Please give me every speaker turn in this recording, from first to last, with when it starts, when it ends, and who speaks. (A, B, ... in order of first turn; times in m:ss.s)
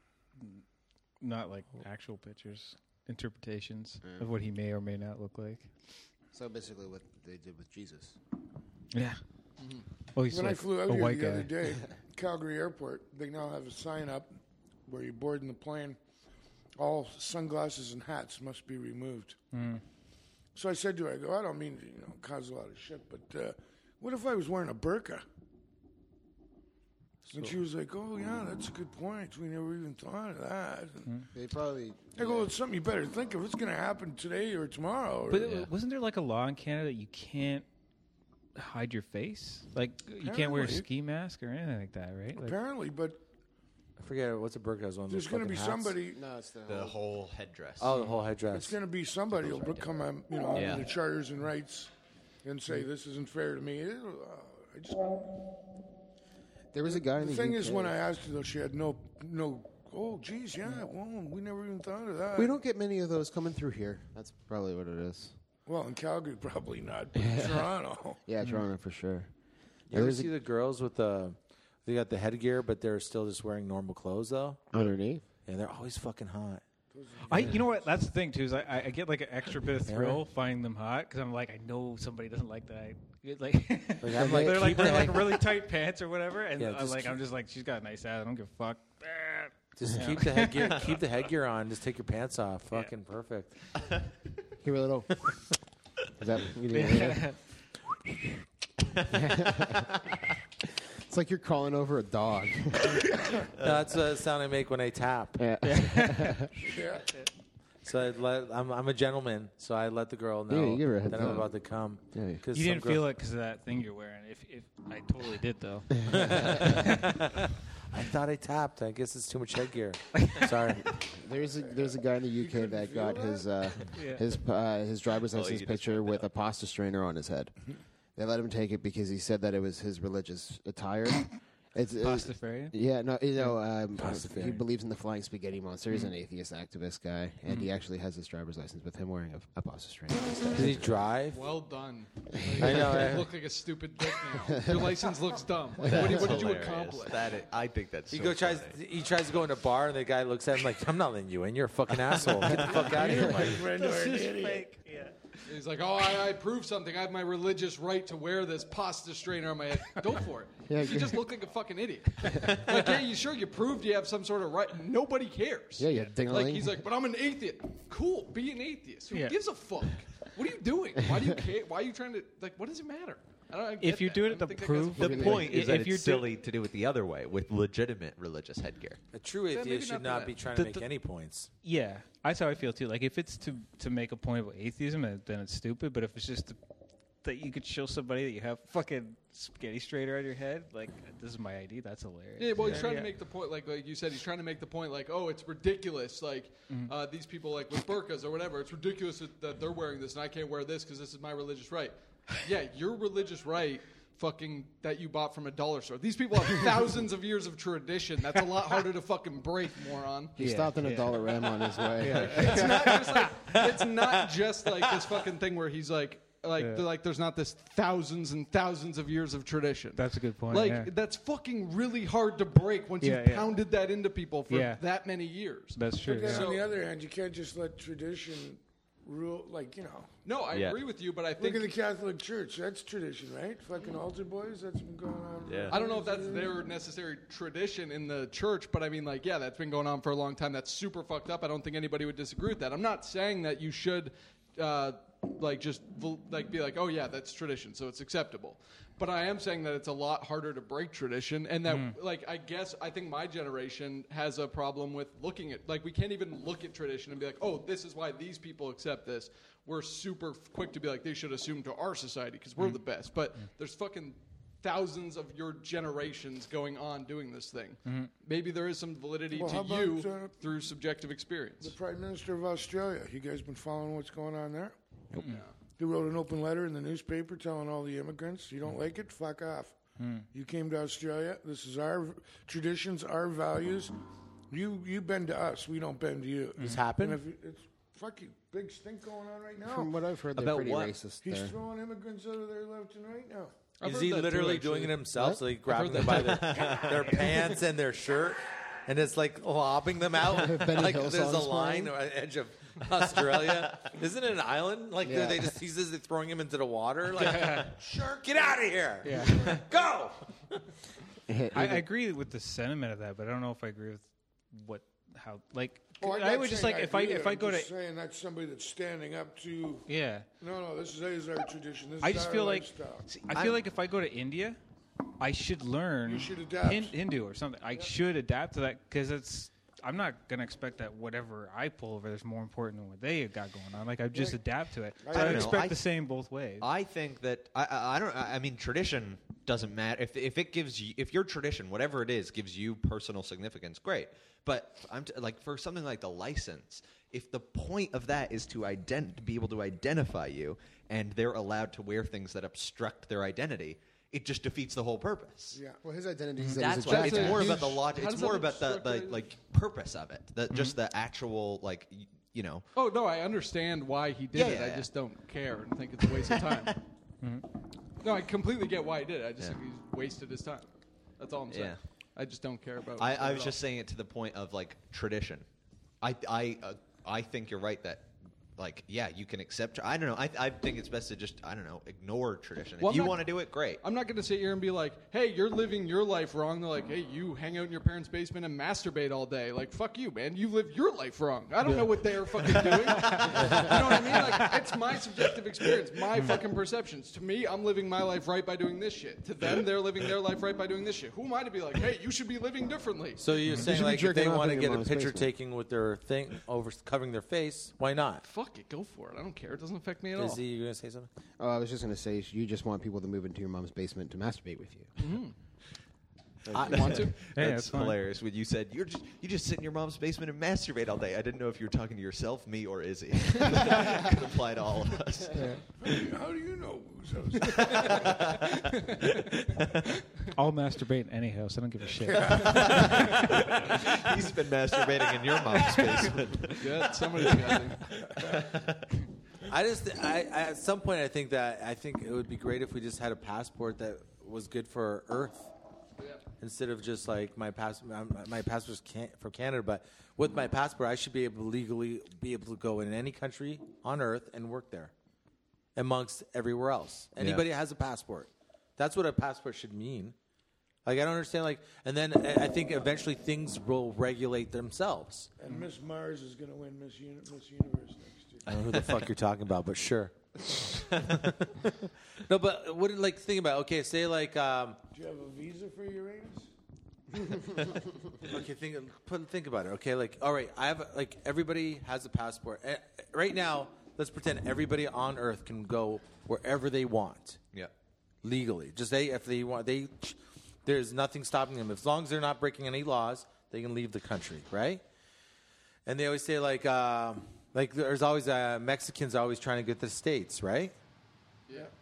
0:01.2-0:05.7 A
0:04.0-0:04.3 B
0:06.3-0:08.2 B
0:08.9-0:09.2 A
0:09.6-0:09.8 C
0:10.1-0:11.5 A
0:10.3-0:14.3 D
0:14.8-0:16.0 D
0:16.8-0:19.4 D
0:19.5-0:19.8 A
0:20.5-0:25.2 D
0:27.3-0:31.1 D
0:31.3-0:32.5 B
0:32.2-0:35.7 D
0:35.3-0:37.6 A
0:38.6-0:42.6 A
0:40.2-0:40.9 D
0:42.4-0:43.2 D
0:44.0-0:46.0 E
0:45.1-0:46.2 D
0:46.1-0:47.0 B
0:46.7-0:47.9 F
0:47.8-0:48.8 E
0:48.5-0:51.9 D
0:49.4-0:49.8 B
0:50.5-0:50.9 F
0:52.4-0:55.4 D
0:56.7-0:57.9 B
0:56.9-1:02.6 D
1:02.3-1:05.3 B
1:05.6-1:08.2 D
1:07.2-1:07.7 B
1:08.2-1:09.3 B
1:09.9-1:14.7 E
1:09.9-1:10.3 B
1:14.7-1:15.2 B
1:15.4-1:16.6 E
1:16.9-1:18.0 D
1:17.3-1:30.8 A
1:19.9-1:20.2 E
1:24.0-1:25.5 E
1:24.1-1:25.1 B
1:26.6-1:27.2 E
1:29.8-1:33.5 E
1:34.6-1:35.1 B
1:36.2-1:37.3 B
1:36.7-1:37.4 A
1:39.1-1:39.9 B
1:41.1-1:43.0 B
1:43.6-1:45.4 E
1:45.4-1:46.5 B
1:45.6-1:46.5 A
1:46.6-1:47.1 D
1:47.8-1:53.1 E
1:50.5-1:51.5 B
1:52.1-1:52.4 B
1:52.5-1:57.0 A
1:55.9-1:56.6 B
1:56.1-2:00.9 E
2:00.9-2:07.5 B
2:01.5-2:03.7 D
2:03.9-2:04.2 A
2:05.3-2:06.2 F
2:08.2-2:21.1 B
2:12.0-2:12.7 A
2:14.0-2:14.6 E
2:20.5-2:21.4 E
2:21.2-2:27.4 C
2:22.4-2:22.9 B
2:22.6-2:23.3 E
2:24.6-2:24.9 B
2:25.8-2:28.8 F
2:25.8-2:26.4 B
2:28.1-2:33.6 E
2:32.8-2:34.7 D
2:33.7-2:35.1 A
2:35.5-2:55.5 C
2:40.7-2:41.2 B
2:45.8-2:46.8 B
2:49.1-2:49.4 A
2:53.8-2:56.3 A
2:55.0-2:59.0 F
2:55.0-2:55.4 B
2:59.1-3:01.5 E
2:59.5-3:00.5 C
3:01.6-3:06.6 A
3:07.2-3:13.1 A
3:12.4-3:30.4 C
3:30.4-3:32.6 B
3:30.4-3:31.2 A
3:32.1-3:46.7 C
3:32.2-3:33.3 A
3:36.6-3:36.8 A
3:40.0-3:40.9 A
3:43.0-3:43.5 A
3:44.5-3:44.8 A
3:45.7-3:46.5 A
3:46.0-3:50.1 D
3:50.2-3:51.7 C
3:50.5-3:50.8 F
3:51.4-3:56.6 D
3:55.4-3:55.8 F
3:55.7-4:31.7 C
4:11.6-4:12.0 A
4:22.6-4:22.8 A
4:27.8-4:28.1 A
4:29.3-4:30.4 D
4:31.6-4:34.7 D
4:35.1-4:35.4 A
4:35.2-4:35.5 C
4:35.8-4:39.8 D
4:40.0-4:40.3 A
4:40.3-4:43.9 D
4:44.5-4:50.0 D
4:46.6-4:47.2 E
4:49.6-4:51.6 B
4:50.4-4:50.9 F
4:51.2-4:53.5 D
4:53.8-4:57.2 C
4:53.8-5:07.7 E
4:56.2-4:57.1 F
5:00.3-5:01.9 B
5:05.0-5:05.5 B
5:07.2-5:07.7 A
5:07.7-5:09.8 D
5:08.2-5:10.2 E
5:09.0-5:09.6 A
5:11.3-5:11.9 B
5:11.5-5:17.7 A
5:16.0-5:19.9 D
5:19.9-5:20.2 A
5:20.4-5:23.0 D
5:22.0-5:22.7 A
5:23.1-5:23.6 F
5:23.2-5:24.6 A
5:25.2-5:36.7 A
5:26.0-5:27.0 D
5:34.1-5:34.4 D
5:35.0-5:35.6 D
5:35.1-5:35.8 F
5:36.6-5:55.6 F
5:55.5-5:55.8 D
5:55.8-5:57.6 B
5:56.6-6:02.6 F
5:56.7-5:59.3 C
6:00.5-6:00.8 A
6:02.7-6:06.8 C
6:04.3-6:04.9 F
6:06.2-6:06.6 F
6:08.0-6:13.6 C
6:11.5-6:11.8 F
6:13.0-6:15.4 F
6:16.0-6:18.0 F
6:18.6-6:23.8 F
6:22.8-6:43.4 C
6:31.6-6:34.6 A
6:36.1-6:36.4 A
6:43.2-6:48.2 E
6:43.6-6:45.3 B
6:48.2-6:50.4 C
6:50.1-6:51.1 E
6:51.4-6:54.9 B
6:55.0-6:55.3 C
6:56.5-6:56.9 E
6:56.6-6:57.2 C
6:56.6-7:05.5 F
6:57.2-6:58.0 A
7:03.4-7:03.8 C
7:05.3-7:05.6 A
7:05.8-7:08.3 D
7:07.9-7:08.2 F
7:10.4-7:13.5 A
7:12.0-7:13.2 D
7:12.3-7:17.6 F
7:15.6-7:16.1 A
7:16.5-7:17.9 C
7:18.2-7:18.8 F
7:19.5-7:25.5 E
7:26.4-7:34.9 E
7:35.8-7:40.1 E
7:37.2-7:37.4 F
7:40.8-7:45.3 E
7:45.4-7:48.4 D
7:48.5-7:54.8 E
7:54.9-7:56.5 D
7:58.2-8:07.4 E
8:08.2-8:14.8 E
8:15.8-8:20.7 E